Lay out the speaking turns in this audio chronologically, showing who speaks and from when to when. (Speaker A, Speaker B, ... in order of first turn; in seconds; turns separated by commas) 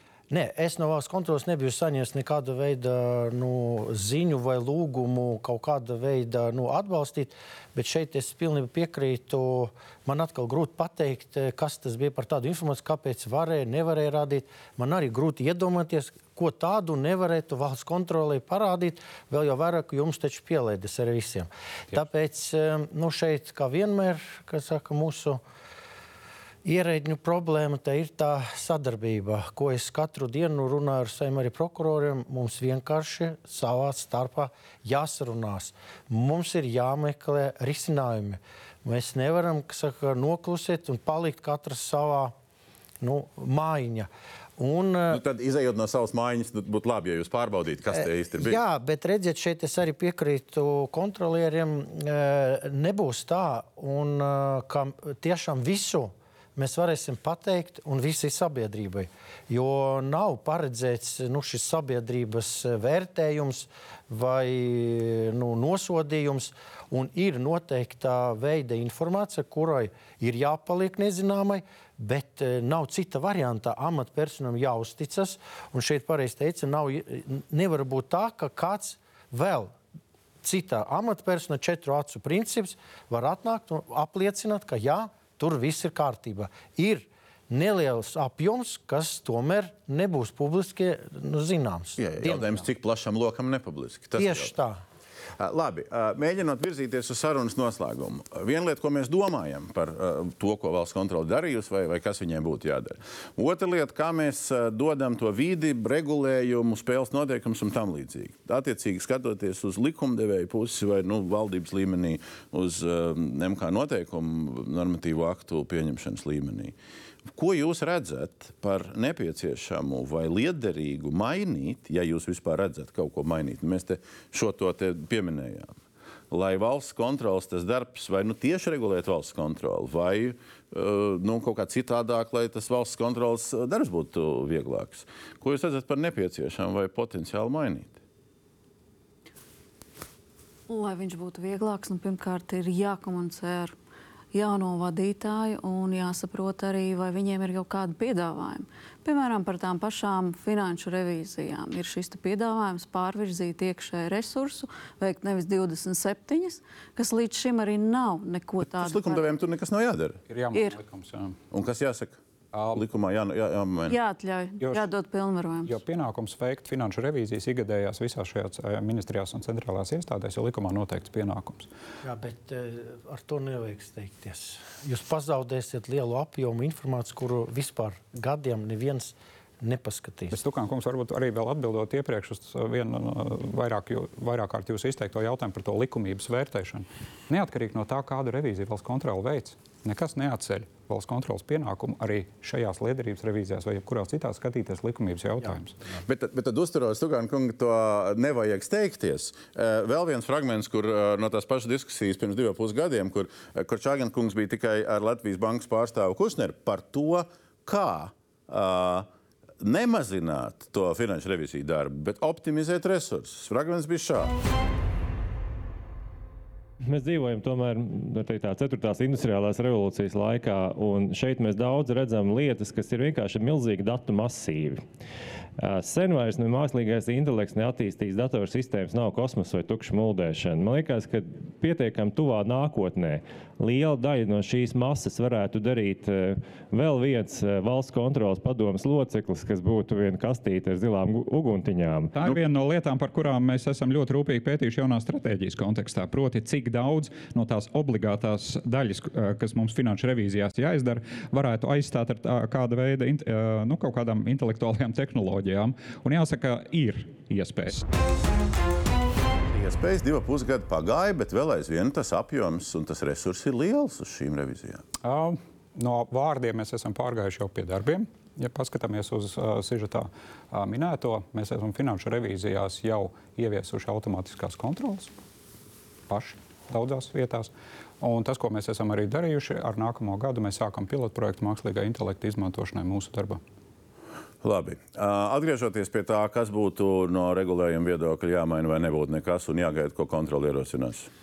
Speaker A: 0.3-25.4, Speaker A: 26.6-42.3, Speaker A: 43.0-45.2, Speaker B: 45.1-48.6, Speaker A: 47.9-79.7, Speaker A: 80.4-92.7, Speaker B: 92.0-94.5, Speaker A: 94.2-94.8, Speaker B: 95.4-116.7, Speaker B: 117.3-125.8, Speaker B: 126.3-138.0, Speaker C: 140.7-143.7, Speaker C: 144.3-159.3, Speaker B: 158.7-160.2, Speaker D: 160.3-161.4, Speaker C: 160.5-160.8, Speaker B: 161.5-162.2, Speaker D: 162.5-162.8, Speaker B: 162.7-164.0, Speaker C: 163.9-165.8, Speaker D: 164.6-164.9, Speaker D: 165.7-171.7, Speaker A: 172.0-180.4, Speaker D: 180.3-195.8, Speaker B: 196.1-209.1, Speaker B: 209.6-214.3, Speaker E: 216.8-224.8, Speaker E: 225.6-242.2, Speaker D: 242.2-257.8, Speaker B: 259.5-264.8, Speaker D: 265.0-275.1, Speaker D: 276.1-283.4, Speaker B: 284.4-291.1